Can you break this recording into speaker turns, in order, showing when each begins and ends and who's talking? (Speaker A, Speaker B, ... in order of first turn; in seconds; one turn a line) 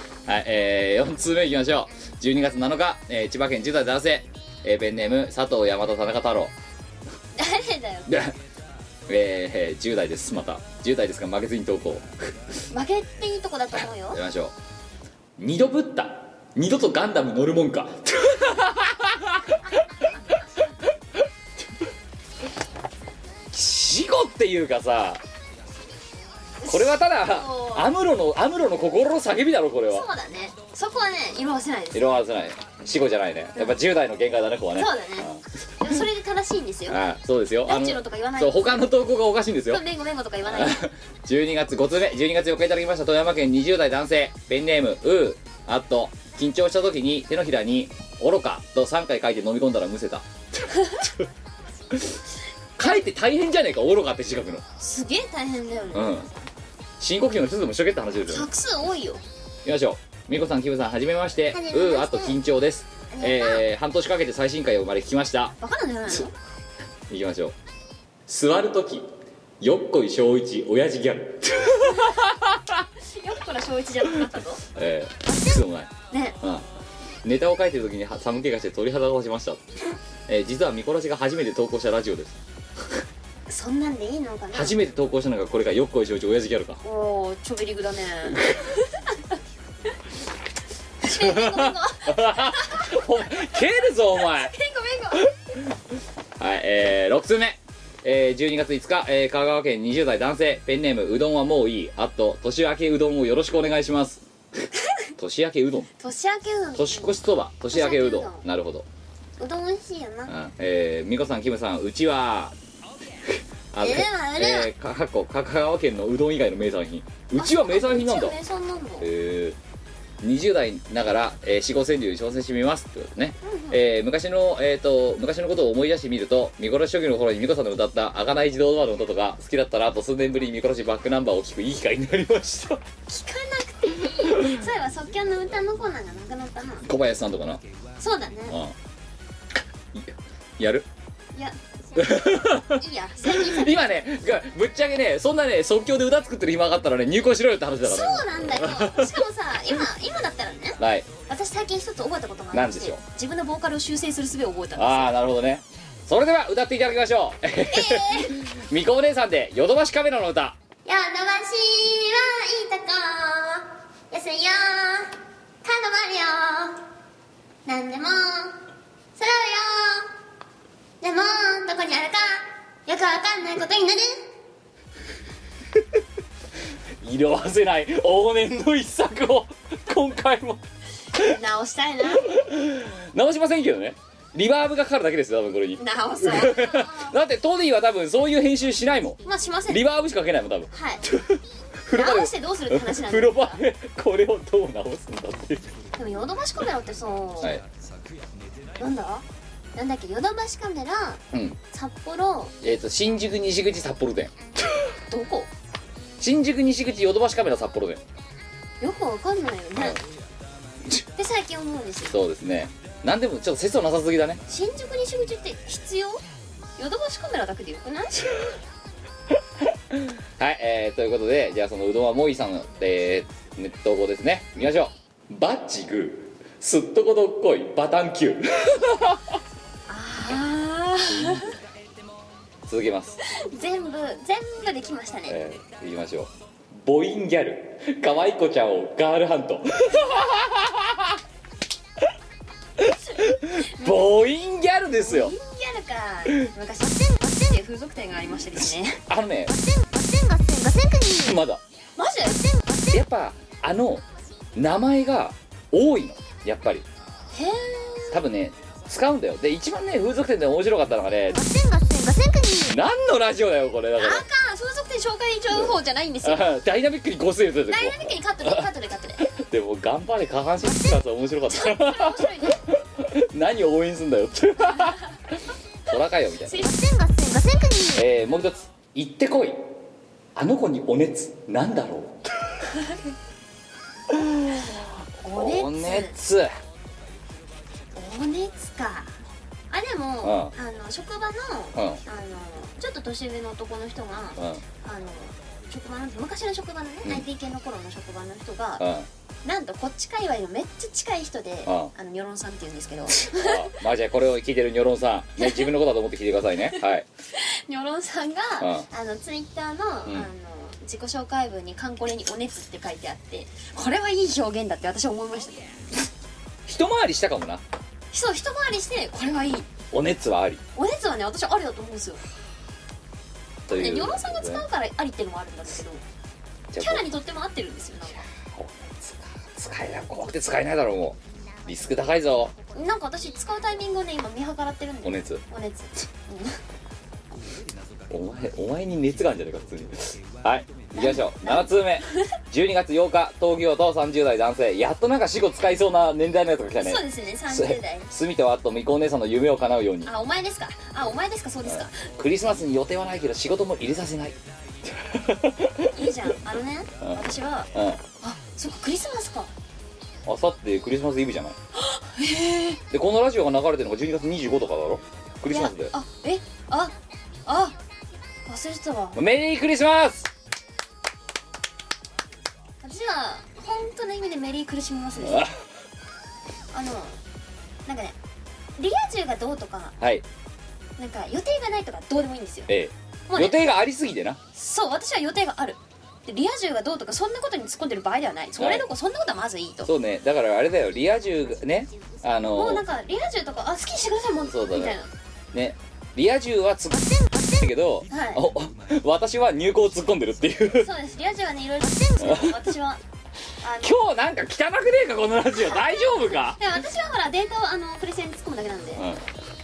Speaker A: 0.3-6.5
Speaker B: 7.4-8.1
Speaker A: 8.1-8.4
Speaker A: 9.1-12.4
Speaker B: 12.7-14.2
Speaker A: 14.1-14.5
Speaker A: 15.4-19.6
Speaker A: 23.5-25.2
Speaker B: 26.6-27.9
Speaker A: 26.7-30.1
Speaker B: 29.9-32.2
Speaker A: 31.9-35.4
Speaker B: 34.8-35.3
Speaker B: 35.8-37.0
Speaker A: 36.9-39.8
Speaker B: 37.7-38.9
Speaker B: 39.7-40.8
Speaker A: 40.4-51.2
Speaker A: 52.8-54.6
Speaker B: 54.8-56.3
Speaker A: 55.9-56.3
Speaker A: 57.0-58.5
Speaker B: 58.3-59.2
Speaker A: 59.6-65.5
Speaker B: 61.5-62.4
Speaker B: 63.1-63.6
Speaker B: 65.6-66.3
Speaker A: 67.1-67.5
Speaker A: 68.3-69.1
Speaker A: 69.6-72.8
Speaker B: 73.1-74.6
Speaker A: 74.8-76.7
Speaker B: 75.3-76.4
Speaker A: 77.2-82.4
Speaker B: 83.5-84.8
Speaker A: 84.5-86.8
Speaker B: 86.8-88.4
Speaker A: 88.3-88.6
Speaker B: 91.0-93.0
Speaker A: 91.0-94.5
Speaker B: 94.2-95.3
Speaker A: 96.4-104.2
Speaker A: 105.2-105.9
Speaker B: 106.0-107.2
Speaker A: 106.8-108.8
Speaker B: 107.7-108.4
Speaker B: 109.4-110.3
Speaker A: 110.3-112.5
Speaker A: 113.3-118.3
Speaker B: 113.8-114.7
Speaker B: 117.4-119.1
Speaker A: 119.0-119.6
Speaker A: 120.2-132.8
Speaker B: 123.4-123.8
Speaker B: 133.1-136.9
Speaker A: 136.8-137.6
Speaker B: 138.0-138.6
Speaker A: 138.5-138.8
Speaker A: 139.9-140.9
Speaker B: 141.3-143.8
Speaker A: 142.0-149.1
Speaker B: 147.8-155.2
Speaker A: 150.8-151.1
Speaker A: 152.5-153.0
Speaker A: 154.8-160.6
Speaker B: 157.7-158.4
Speaker B: 160.8-166.8
Speaker B: 167.7-168.6
Speaker B: 169.2-170.1
Speaker B: 171.0-174.2
Speaker A: 177.0-180.6
Speaker B: 181.1-182.3
Speaker A: 182.3-195.7
Speaker B: 185.8-187.2
Speaker B: 189.3-189.8
Speaker B: 190.7-191.1
Speaker B: 191.9-193.6
Speaker B: 196.0-197.6
Speaker B: 198.8-202.6
Speaker A: 201.3-201.6
Speaker A: 202.6-204.3
Speaker B: 205.1-205.5
Speaker A: 206.2-208.0
Speaker B: 208.8-210.0
Speaker B: 211.2-212.1
Speaker A: 212.1-214.4
Speaker B: 214.5-216.2
Speaker B: 216.8-218.3
Speaker A: 219.9-229.2
Speaker B: 229.9-231.5
Speaker A: 232.7-233.2
Speaker B: 233.3-235.4
Speaker A: 235.3-241.1
Speaker A: 242.8-245.3
Speaker B: 243.8-244.1
Speaker B: 245.0-249.0
Speaker A: 249.1-249.5
Speaker C: 249.5-251.3
Speaker A: 251.2-251.6
Speaker B: 252.0-253.0
Speaker A: 252.9-254.1
Speaker A: 254.6-256.9
Speaker B: 257.3-258.2
Speaker A: 258.1-261.4
Speaker C: 261.4-262.7
Speaker A: 262.7-264.2
Speaker B: 264.0-266.4
Speaker A: 266.2-268.6
Speaker B: 267.7-269.3
Speaker A: 269.2-275.0
Speaker B: 271.5-272.6
Speaker A: 275.9-276.6
Speaker B: 276.5-277.2
Speaker C: 276.6-277.9
Speaker A: 277.9-279.6
Speaker A: 280.4-282.3
Speaker A: 284.1-286.5
Speaker B: 285.2-286.1
Speaker B: 287.9-289.2
Speaker B: 289.7-298.8
Speaker A: 290.2-290.5
Speaker A: 291.8-292.0
Speaker A: 294.4-294.6
Speaker A: 298.8-299.1
Speaker B: 299.4-303.8
Speaker A: 301.7-301.9
Speaker A: 303.2-307.1
Speaker B: 305.4-305.7
Speaker B: 307.3-315.8
Speaker A: 316.7-317.6
Speaker B: 318.1-319.7
Speaker A: 319.9-320.6
Speaker B: 320.8-322.2
Speaker A: 323.7-324.6
Speaker B: 323.7-326.0
Speaker A: 326.7-327.1
Speaker B: 326.8-328.2
Speaker A: 328.5-332.5
Speaker B: 332.7-336.6
Speaker A: 335.0-335.4
Speaker A: 338.1-350.1
Speaker B: 340.9-342.3
Speaker B: 346.8-348.1
Speaker B: 350.1-352.1
Speaker A: 351.7-355.9
Speaker B: 355.9-359.5
Speaker A: 357.7-358.0
Speaker A: 360.3-361.6
Speaker B: 361.8-362.8
Speaker A: 362.9-365.9
Speaker B: 365.5-366.9
Speaker B: 367.5-367.8
Speaker B: 368.5-369.2
Speaker A: 369.1-370.3
Speaker B: 372.8-375.5
Speaker A: 375.2-375.5
Speaker B: 376.7-377.2
Speaker B: 377.9-378.1
Speaker B: 378.8-379.9
Speaker A: 380.0-380.2
Speaker B: 381.0-382.7
Speaker A: 382.7-384.4
Speaker B: 383.3-383.6
Speaker B: 384.5-389.9
Speaker A: 388.6-388.9
Speaker A: 389.8-392.8
Speaker B: 392.5-395.1
Speaker A: 394.5-394.9
Speaker A: 395.5-400.9
Speaker B: 398.1-398.4
Speaker B: 400.8-403.0
Speaker A: 402.2-402.6
Speaker B: 403.6-404.0
Speaker A: 403.8-406.6
Speaker B: 405.6-409.1
Speaker A: 409.0-409.2